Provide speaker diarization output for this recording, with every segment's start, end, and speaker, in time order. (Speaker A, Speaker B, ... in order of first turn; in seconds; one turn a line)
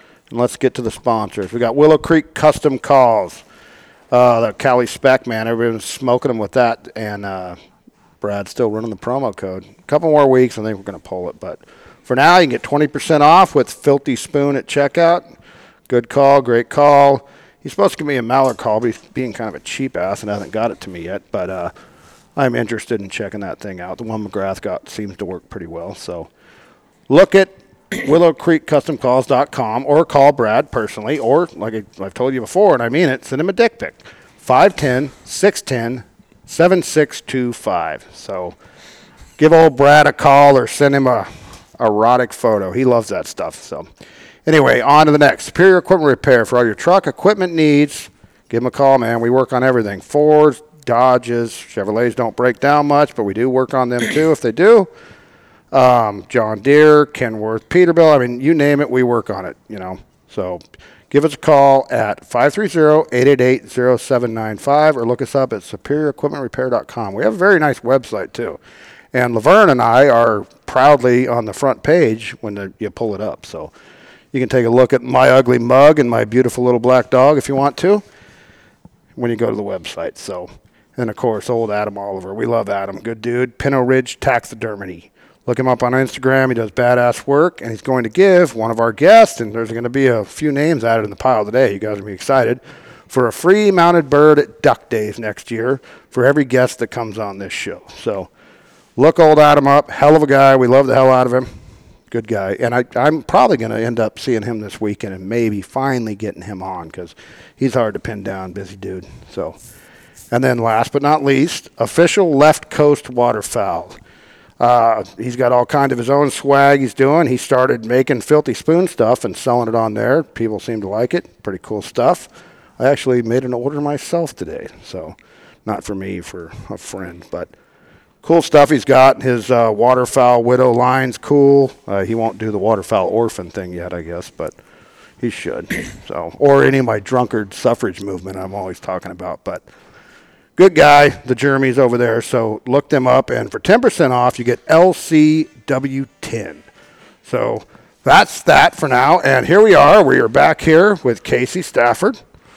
Speaker A: 0.3-3.4
Speaker A: 4.1-7.6
Speaker A: 8.2-15.2
Speaker A: 15.9-21.7
Speaker A: 22.4-26.3
Speaker A: 27.1-38.5
Speaker A: 39.4-43.9
Speaker A: 44.5-54.9
Speaker A: 55.7-68.6
Speaker A: 69.1-73.7
Speaker A: 74.3-78.0
Speaker A: 79.2-98.3
Speaker A: 99.0-101.5
Speaker A: 102.1-109.5
Speaker A: 110.3-114.0
Speaker A: 114.6-125.1
Speaker A: 125.7-127.5
Speaker A: 128.2-134.5
Speaker A: 135.2-139.6
Speaker A: 140.6-146.6
Speaker A: 147.2-152.2